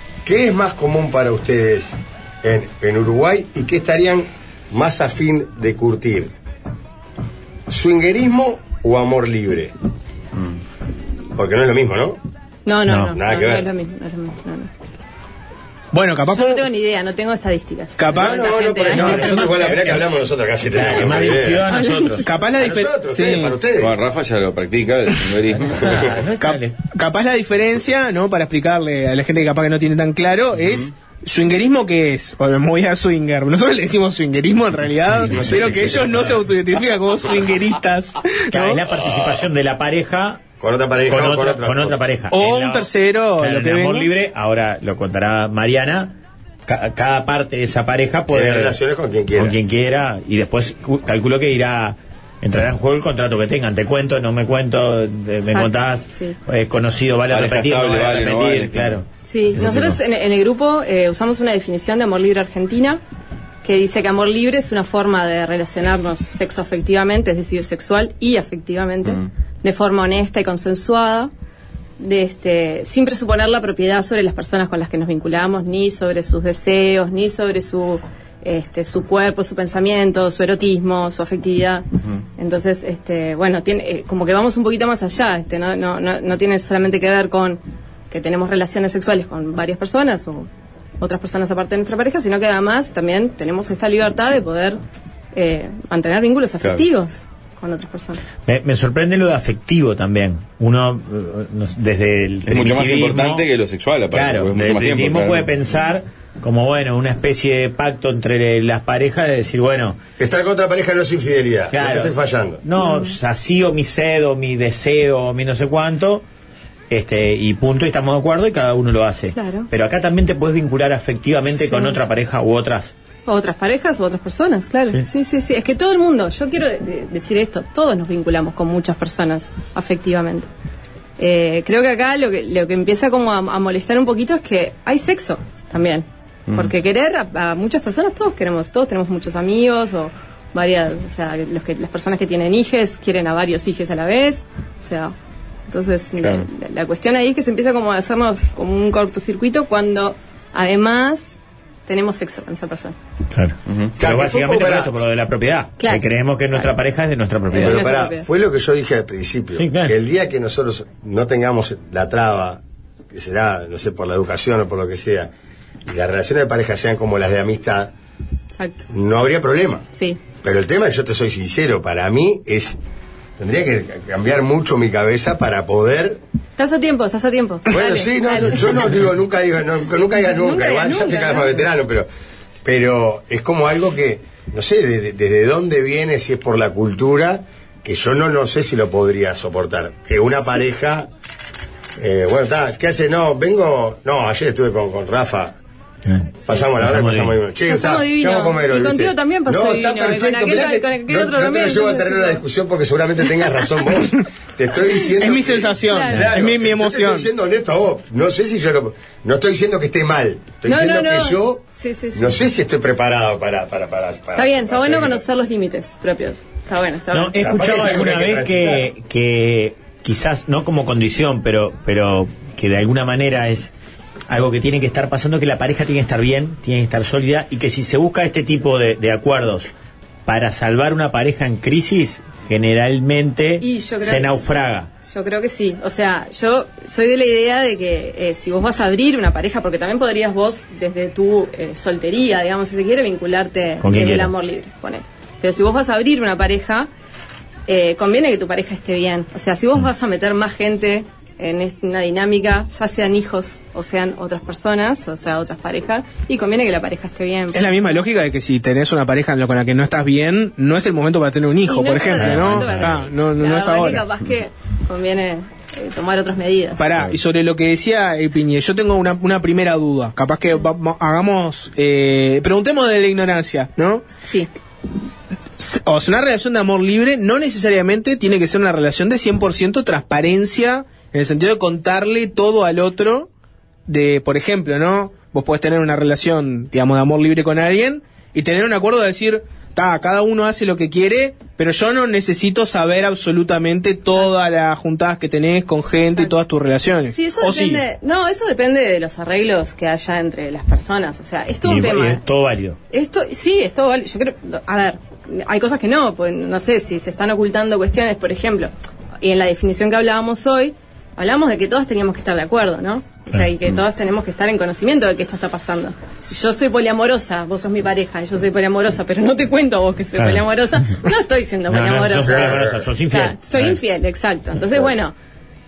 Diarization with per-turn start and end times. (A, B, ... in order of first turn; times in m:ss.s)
0:00.2-0:06.3 A
0:07.7-0:09.7 A
0:11.3-0:12.2 A
0:12.6-0:14.7 B
0:12.9-0:13.2 C
0:13.1-0:13.7 A
0:15.9-0:16.6 D
0:16.3-0:19.6 B
0:18.0-0:18.3 D
0:18.1-0:21.6 A
0:18.9-0:20.0 C
0:20.7-0:22.2 C
0:21.6-0:22.2 B
0:22.2-0:23.6 D
0:22.6-0:24.0 A
0:23.8-0:26.1 E
0:25.5-0:26.7 C
0:26.4-0:38.8 D
0:35.1-0:35.5 C
0:35.3-0:36.2 A
0:38.5-0:40.4 C
0:40.6-0:42.0 A
0:41.1-0:46.1 C
0:42.3-0:44.1 D
0:46.7-0:48.8 C
0:48.3-0:49.6 A
0:49.3-1:00.0 C
0:55.4-0:56.4 B
0:57.3-0:59.0 E
0:59.2-1:03.0 B
1:03.6-1:11.3 B
1:12.0-1:30.5 B
1:31.0-1:34.8 B
1:35.3-1:38.2 B
1:38.4-1:43.4 C
1:42.5-1:45.5 E
1:44.1-1:50.0 C
1:50.2-1:52.6 A
1:51.7-1:56.2 C
1:52.8-1:53.2 B
1:56.9-2:02.9 C
1:59.3-1:59.7 B
2:01.5-2:02.0 B
2:03.2-2:10.5 B
2:11.2-2:25.1 B
2:25.7-2:31.4 B
2:26.2-2:26.4 E
2:31.9-2:32.9 B
2:33.3-2:37.9 C
2:33.7-2:33.9 E
2:34.0-2:35.0 A
2:35.8-2:36.8 B
2:37.5-2:38.3 B
2:37.6-2:45.3 A
2:39.6-2:39.9 C
2:45.9-2:47.9 A
2:48.6-2:48.9 B
2:48.9-2:49.8 A
2:49.9-2:50.3 B
2:50.4-2:52.8 A
2:53.4-2:56.2 A
2:56.6-2:59.1 B
2:57.7-3:02.1 A
3:00.2-3:01.7 B
3:02.6-3:11.1 A
3:12.0-3:15.6 A
3:16.1-3:17.4 C
3:16.4-3:31.6 A
3:17.6-3:22.4 B
3:25.2-3:27.3 D
3:25.8-3:26.4 B
3:30.6-3:32.4 B
3:32.1-3:35.2 A
3:34.3-3:37.4 B
3:37.1-3:43.7 C
3:37.4-3:38.9 A
3:44.3-3:49.7 C
3:50.2-3:54.9 C
3:53.6-3:54.4 B
3:55.0-4:06.9 B
4:03.8-4:04.3 C
4:07.7-4:17.7 B
4:17.5-4:24.0 D
4:21.6-4:26.9 B
4:26.8-4:34.0 D
4:35.6-4:43.3 D
4:43.9-4:57.8 D
4:56.1-4:56.4 B
4:57.1-5:02.2 B
5:01.6-5:02.8 C
5:02.9-5:25.1 B
5:21.7-5:23.8 C
5:22.2-5:22.9 A